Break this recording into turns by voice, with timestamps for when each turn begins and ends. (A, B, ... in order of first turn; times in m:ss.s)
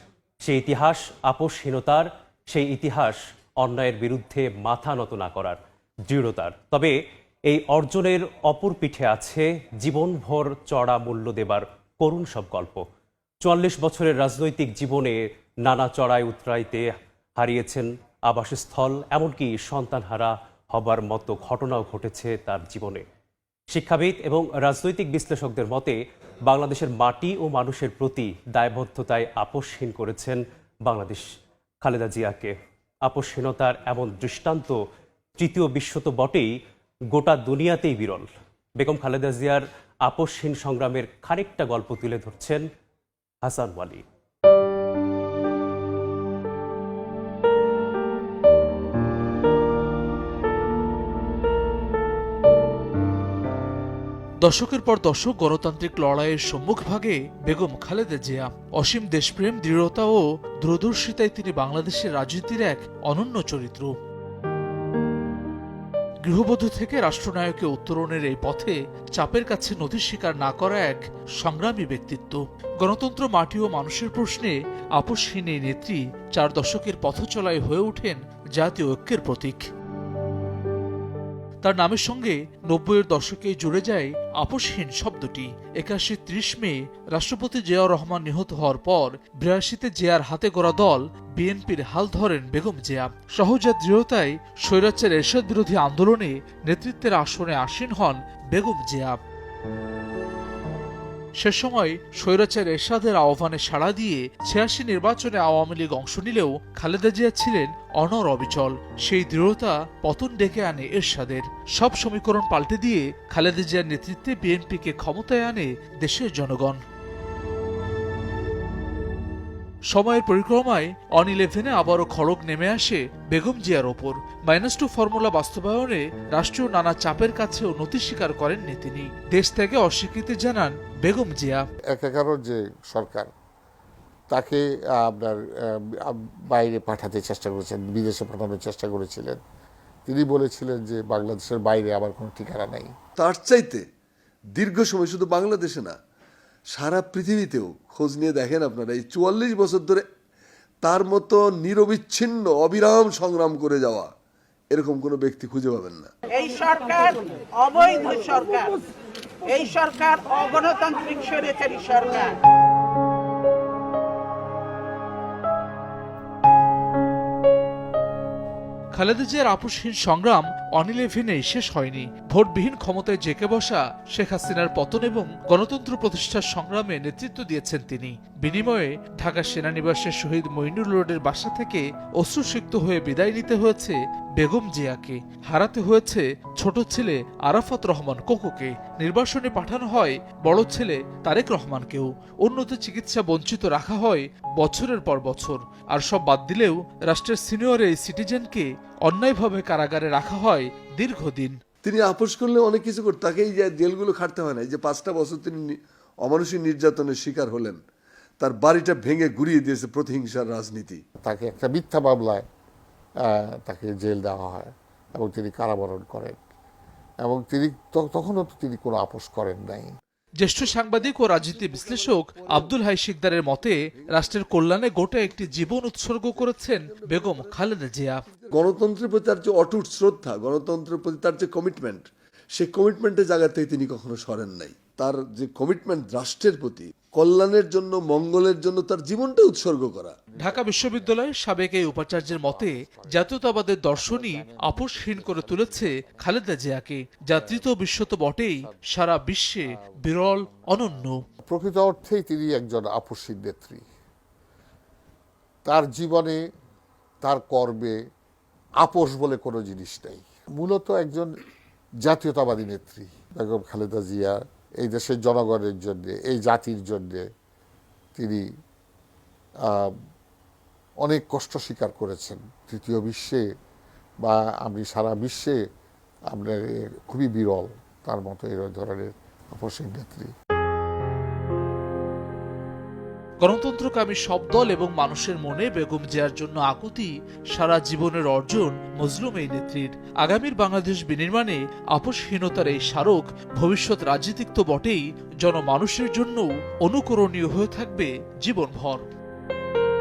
0:00.4-0:07.0 A
0:07.5-0:12.8 A
0:13.4-0:16.9 A
0:17.4-0:23.0 A
0:23.7-0:31.2 A
0:31.8-0:32.5 A
0:33.0-0:34.8 A
0:35.4-0:36.5 A
0:37.1-0:38.3 A
0:38.8-0:42.6 A
0:43.4-0:44.0 A
0:54.4-1:03.9 B
1:06.2-1:19.7 B
1:21.6-1:39.2 B
1:41.4-1:56.8 B
1:59.9-2:11.6 B
2:11.9-2:13.3 C
2:14.3-2:19.4 C
2:20.1-2:22.9 C
2:23.2-2:23.8 D
2:24.6-2:26.0 D
2:26.7-2:30.0 D
2:30.8-2:34.1 D
2:34.7-2:36.1 D
2:36.3-2:38.8 E
2:39.4-2:42.4 E
2:48.9-3:21.6 B
3:21.8-3:27.8 D
3:28.4-3:31.0 D
3:31.2-3:32.4 C
3:33.3-3:36.4 C
3:37.2-3:39.9 C
3:40.4-3:48.2 B
3:40.8-3:42.8 D
3:44.0-3:44.5 D
3:45.1-3:47.8 D
3:48.3-4:00.2 D
4:00.4-4:11.2 B
4:11.5-4:13.8 C
4:15.7-4:16.4 C
4:17.2-4:18.0 C
4:18.8-4:21.3 C
4:22.0-4:27.2 C
4:28.2-4:28.4 C
4:29.7-4:29.9 C
4:31.0-4:33.4 C
4:34.2-4:35.6 C
4:36.3-4:40.3 C
4:43.4-4:59.1 B